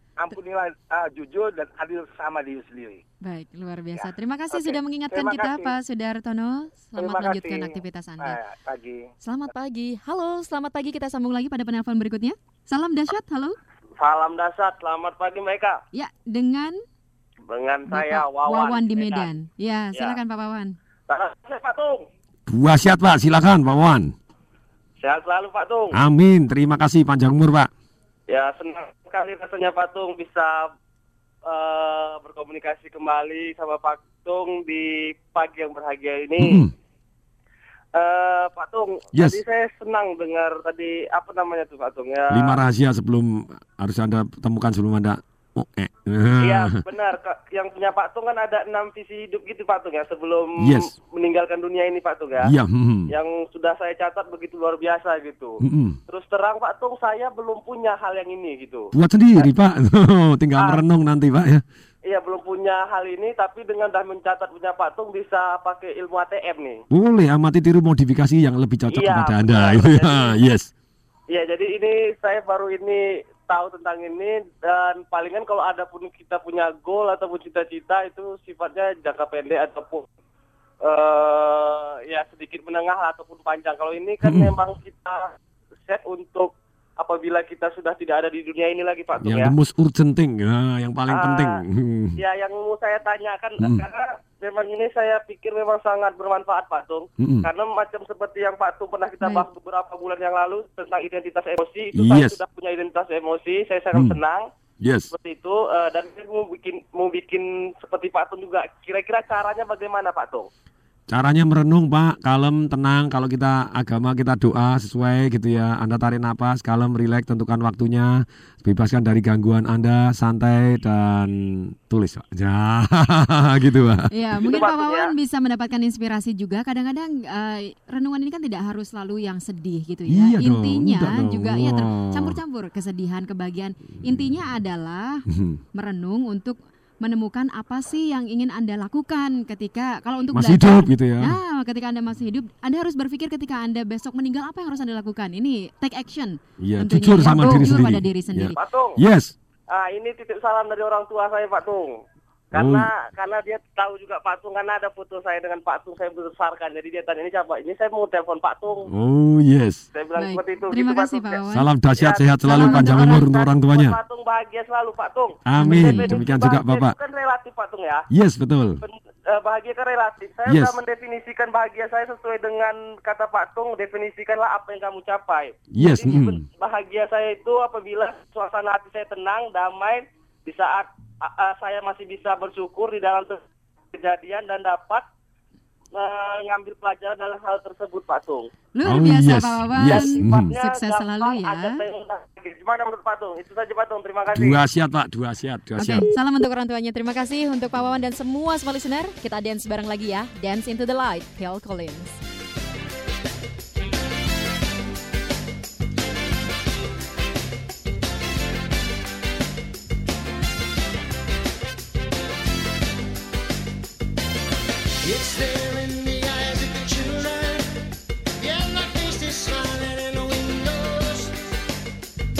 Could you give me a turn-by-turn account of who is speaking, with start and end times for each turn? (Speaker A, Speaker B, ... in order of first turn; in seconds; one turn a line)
Speaker A: 0.2-3.0
Speaker B: 3.2-8.4
Speaker A: 4.0-5.7
Speaker A: 7.0-9.0
Speaker B: 9.2-13.6
Speaker C: 14.0-15.8
Speaker B: 15.9-16.8
Speaker C: 17.5-19.3
Speaker B: 17.9-20.7
Speaker C: 21.1-22.1
Speaker D: 22.5-24.1
Speaker C: 25.0-25.9
Speaker D: 25.9-27.7
Speaker C: 28.3-30.7
Speaker C: 31.5-36.6
Speaker D: 36.4-36.7
Speaker C: 37.9-42.6
Speaker D: 39.1-39.4
Speaker D: 42.3-46.8
Speaker C: 46.4-52.5
Speaker D: 50.6-50.9
Speaker D: 52.4-53.1
Speaker C: 53.1-59.5
Speaker D: 55.6-56.0
Speaker D: 58.9-61.6
Speaker C: 62.1-66.8
Speaker D: 66.9-70.7
Speaker C: 68.9-70.3
Speaker C: 71.3-80.0
Speaker C: 80.8-85.3
Speaker D: 84.2-84.5
Speaker C: 85.9-89.5
Speaker D: 89.2-92.2
Speaker C: 91.1-91.5
Speaker C: 92.2-104.5
Speaker D: 97.2-97.5
Speaker D: 101.9-102.3
Speaker D: 104.8-105.1
Speaker C: 105.1-110.5
Speaker D: 111.1-124.1
Speaker B: 124.1-148.6
Speaker C: 124.4-125.1
Speaker D: 130.1-132.4
Speaker D: 135.3-135.6
Speaker D: 140.3-141.4
Speaker D: 146.6-149.3
Speaker C: 148.5-149.0
Speaker C: 149.7-151.9
Speaker C: 152.5-158.9
Speaker D: 152.6-152.8
Speaker D: 158.9-159.8
Speaker C: 159.9-161.4
Speaker B: 160.2-161.7
Speaker D: 161.5-163.9
Speaker C: 161.9-168.0
Speaker B: 162.4-163.3
Speaker D: 165.4-166.9
Speaker B: 165.6-166.2
Speaker D: 168.1-168.8
Speaker C: 168.8-183.4
Speaker D: 170.4-170.7
Speaker D: 175.7-176.4
Speaker C: 183.9-185.0
Speaker C: 185.9-188.5
Speaker B: 188.7-191.8
Speaker D: 188.8-190.5
Speaker C: 189.8-194.6
Speaker D: 194.3-196.1
Speaker B: 195.8-202.2
Speaker E: 215.0-217.8
Speaker E: 218.4-221.3